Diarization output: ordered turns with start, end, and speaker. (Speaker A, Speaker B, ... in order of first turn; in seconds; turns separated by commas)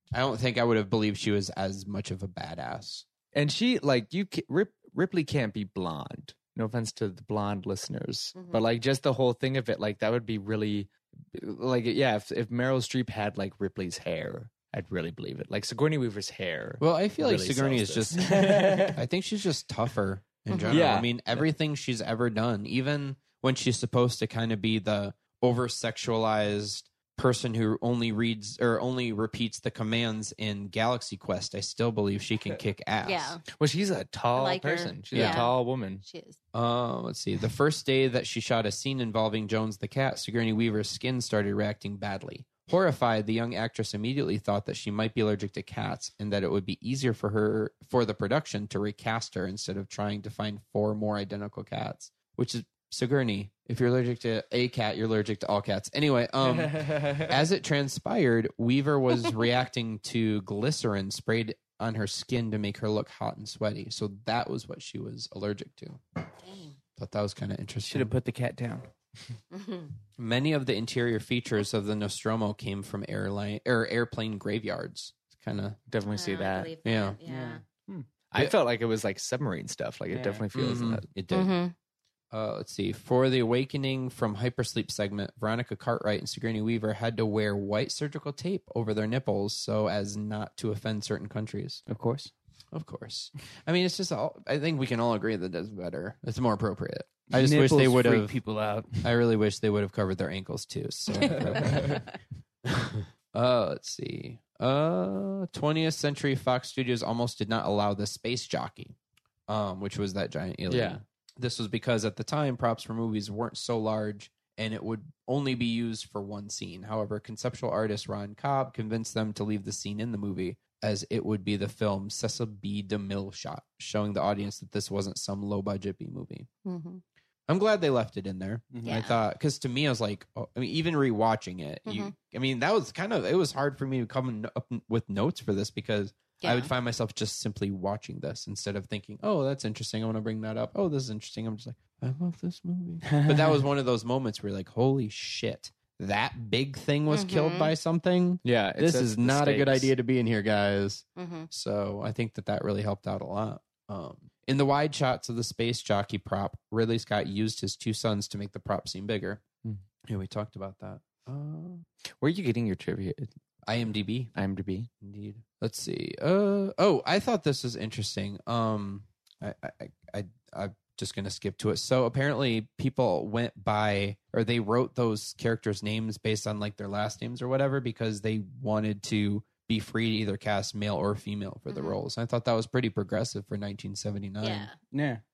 Speaker A: 0.1-3.0, Speaker B: 3.3-19.0, Speaker C: 8.3-8.6, Speaker A: 16.8-33.4, Speaker C: 20.5-20.8, Speaker B: 20.7-21.4, Speaker C: 33.0-33.4, Speaker B: 33.5-36.0, Speaker C: 34.3-36.4, Speaker A: 35.1-35.5, Speaker A: 36.5-66.0, Speaker C: 66.4-66.7, Speaker A: 67.0-68.1, Speaker D: 67.9-68.9, Speaker C: 69.5-69.9, Speaker A: 70.2-75.8, Speaker B: 75.9-76.7, Speaker C: 76.0-77.6, Speaker A: 76.8-77.2, Speaker D: 77.2-78.1, Speaker B: 78.3-81.0, Speaker D: 80.1-80.4, Speaker A: 80.5-81.6, Speaker C: 81.3-81.7, Speaker A: 82.3-91.8, Speaker D: 91.9-92.3, Speaker A: 92.7-98.3, Speaker D: 97.3-99.1, Speaker A: 99.0-102.1, Speaker D: 101.3-102.0, Speaker A: 102.7-108.9, Speaker A: 109.5-126.5, Speaker B: 110.7-111.0, Speaker C: 126.6-127.0, Speaker A: 127.5-159.4, Speaker D: 128.7-129.0, Speaker C: 128.8-129.2, Speaker C: 131.8-132.1, Speaker C: 136.4-136.7, Speaker D: 143.1-143.6, Speaker C: 147.1-147.7, Speaker B: 148.4-149.9, Speaker C: 151.2-151.5, Speaker A: 160.1-161.8, Speaker B: 162.2-163.3, Speaker A: 163.7-164.3, Speaker B: 164.3-164.9, Speaker A: 165.0-184.7, Speaker C: 181.7-182.0, Speaker C: 184.4-184.8, Speaker D: 184.9-185.2